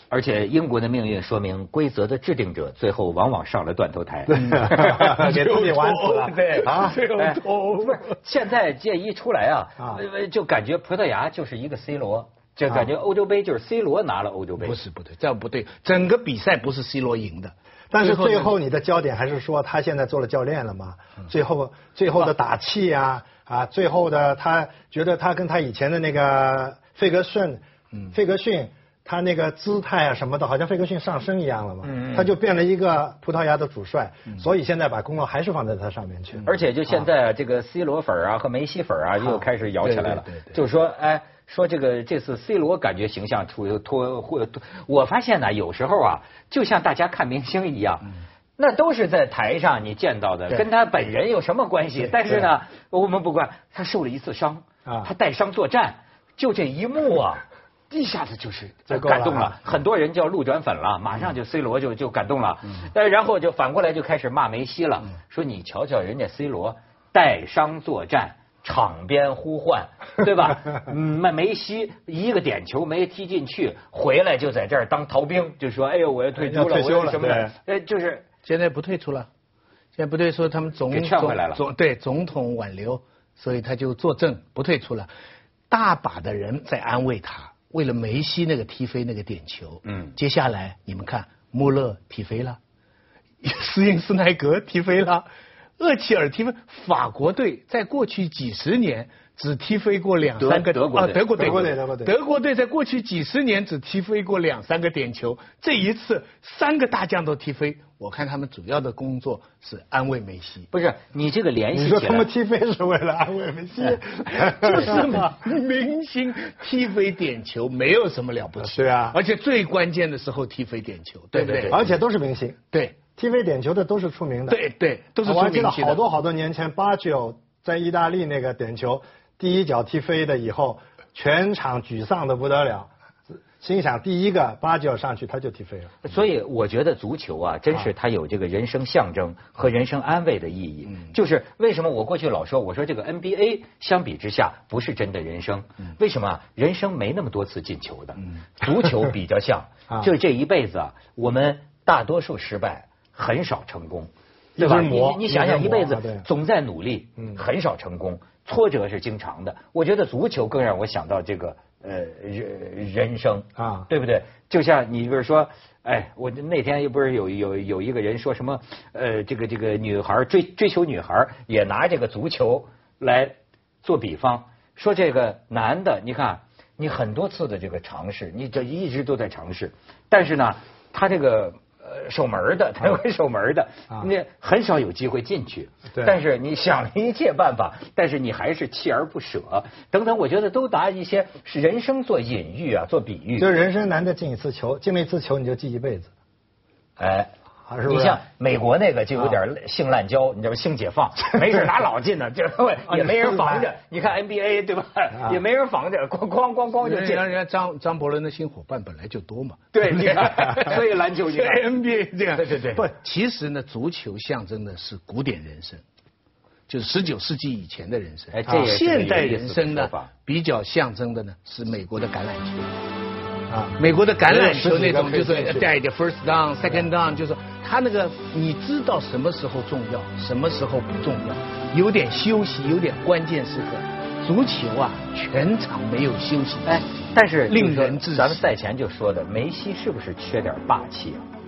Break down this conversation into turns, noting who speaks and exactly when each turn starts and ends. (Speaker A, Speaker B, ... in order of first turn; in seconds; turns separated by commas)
Speaker A: 0.1-5.1, Speaker B: 4.3-7.0, Speaker C: 4.4-8.2, Speaker A: 7.0-14.8, Speaker C: 14.6-18.5, Speaker B: 17.9-36.5, Speaker A: 31.8-32.3, Speaker A: 36.4-78.2, Speaker C: 39.8-40.6, Speaker B: 58.9-59.6, Speaker B: 76.4-77.5, Speaker C: 78.4-79.3, Speaker C: 80.0-85.1, Speaker A: 80.9-81.6, Speaker C: 85.7-92.6, Speaker A: 89.9-90.1, Speaker C: 93.4-95.2, Speaker C: 95.8-110.7, Speaker A: 100.4-101.6, Speaker B: 101.3-102.2, Speaker A: 110.7-112.3, Speaker B: 111.7-115.2, Speaker C: 113.8-121.8, Speaker B: 118.6-119.2, Speaker A: 121.3-121.8, Speaker B: 121.7-122.6, Speaker B: 123.1-124.6, Speaker C: 124.5-126.0, Speaker B: 125.2-132.9, Speaker B: 133.6-136.0, Speaker A: 136.0-193.5, Speaker B: 154.6-156.3, Speaker B: 163.6-163.9, Speaker B: 193.4-196.1, Speaker A: 197.0-197.3, Speaker B: 197.7-198.2, Speaker A: 197.8-207.3, Speaker B: 202.9-203.7, Speaker C: 206.8-215.8, Speaker A: 209.7-211.7, Speaker A: 212.3-212.8, Speaker C: 216.7-222.8, Speaker A: 218.3-220.1, Speaker B: 223.5-225.7, Speaker C: 223.8-238.4, Speaker A: 236.7-241.2